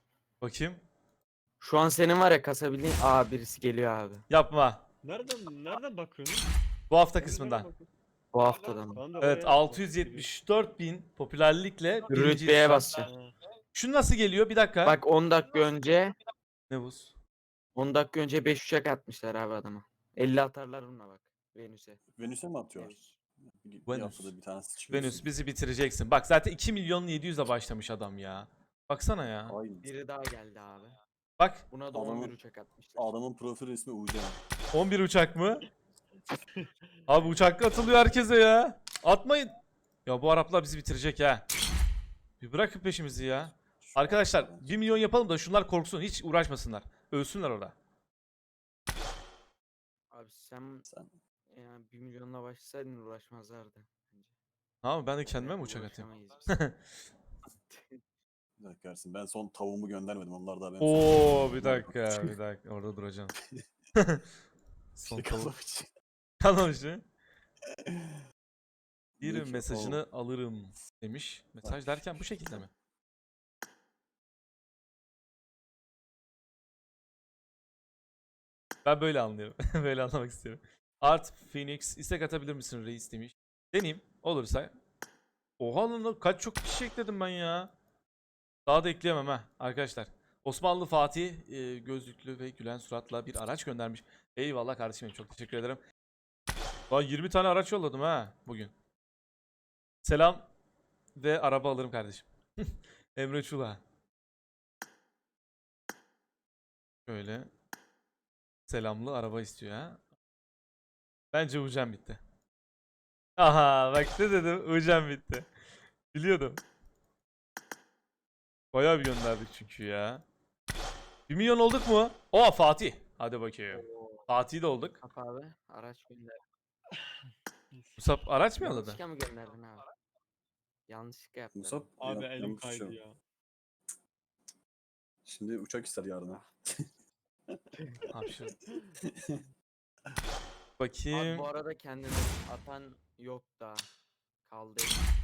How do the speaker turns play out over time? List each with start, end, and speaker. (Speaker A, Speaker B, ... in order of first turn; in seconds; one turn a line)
Speaker A: 0.4-0.8
Speaker B: 1.6-4.2
Speaker A: 4.3-4.8
Speaker C: 5.0-6.5
Speaker A: 6.9-7.7
Speaker C: 7.2-7.9
Speaker B: 8.3-9.0
Speaker C: 8.9-10.3
Speaker A: 9.2-13.0
Speaker B: 12.1-13.1
Speaker C: 13.1-13.4
Speaker A: 13.7-15.0
Speaker B: 14.8-16.2
Speaker A: 16.7-17.1
Speaker B: 17.8-22.0
Speaker D: 22.2-25.3
Speaker B: 22.8-23.2
Speaker A: 23.9-24.3
Speaker A: 24.9-29.6
Speaker D: 29.5-29.9
Speaker B: 29.8-31.0
Speaker A: 31.4-31.6
Speaker B: 31.7-33.1
Speaker D: 31.9-32.4
Speaker D: 33.0-34.4
Speaker A: 34.7-35.7
Speaker A: 37.1-39.5
Speaker A: 40.1-41.5
Speaker A: 42.4-47.8
Speaker D: 43.7-44.7
Speaker B: 50.1-50.9
Speaker D: 50.9-51.1
Speaker B: 51.5-54.3
Speaker A: 54.8-56.8
Speaker B: 55.2-56.6
Speaker B: 57.7-58.0
Speaker D: 58.6-62.4
Speaker A: 60.8-63.3
Speaker A: 64.0-64.2
Speaker A: 65.0-65.5
Speaker D: 65.1-65.9
Speaker A: 66.4-67.0
Speaker D: 67.7-68.2
Speaker D: 69.2-70.0
Speaker A: 69.2-72.7
Speaker D: 71.6-72.6
Speaker A: 78.8-84.7
Speaker A: 85.6-87.7
Speaker A: 88.7-95.8
Speaker A: 96.9-98.7
Speaker A: 100.0-100.5
Speaker A: 101.2-103.8
Speaker A: 107.1-107.5
Speaker A: 108.7-110.0
Speaker A: 111.3-112.2
Speaker A: 113.4-115.5
Speaker A: 116.1-116.6
Speaker A: 118.7-120.2
Speaker A: 121.3-125.0
Speaker B: 123.7-124.3
Speaker B: 125.0-126.4
Speaker C: 127.7-128.1
Speaker A: 128.0-129.0
Speaker B: 128.6-129.9
Speaker B: 130.9-131.8
Speaker D: 131.5-133.0
Speaker C: 132.0-133.2
Speaker D: 135.2-136.9
Speaker A: 138.1-138.6
Speaker D: 139.0-139.4
Speaker A: 140.8-141.5
Speaker B: 141.1-143.9
Speaker B: 144.5-145.0